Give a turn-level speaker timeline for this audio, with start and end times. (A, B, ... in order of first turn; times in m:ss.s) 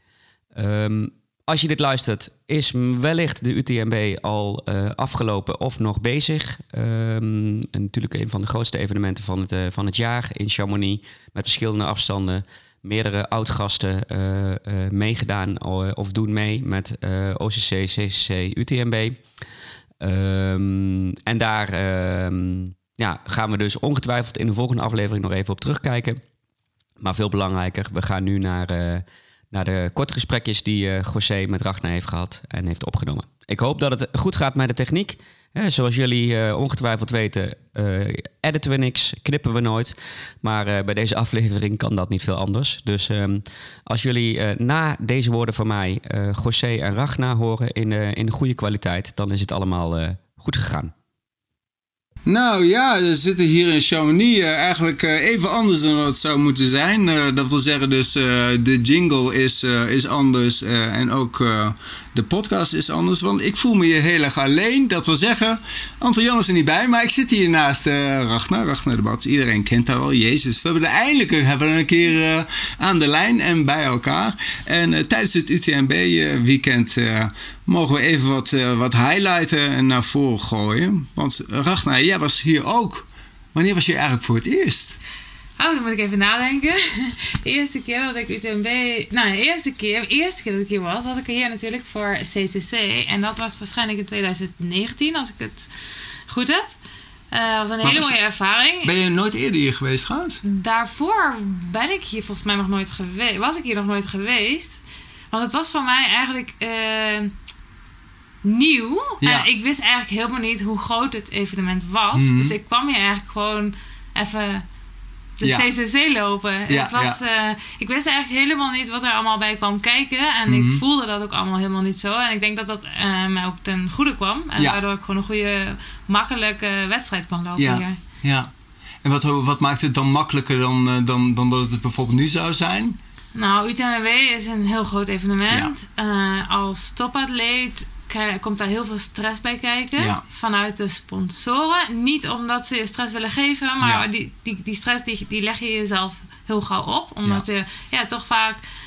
0:00.6-0:19.2 A
0:20.0-0:26.2 A
0:27.0-0:50.9 A
0:52.3-1:25.0 B
1:25.6-1:36.7 C
1:37.3-1:38.9 C
1:37.8-1:38.2 B
1:38.8-1:40.4 B
1:40.4-1:47.3 C
1:48.4-1:54.6 C
1:49.2-1:49.5 B
1:52.1-1:52.6 B
1:55.4-2:08.0 C
1:55.4-1:55.7 B
1:56.7-1:57.2 B
2:00.5-2:00.8 B
2:07.6-2:08.5 B
2:09.0-2:13.0 B
2:13.3-2:28.6 C
2:20.0-2:20.2 B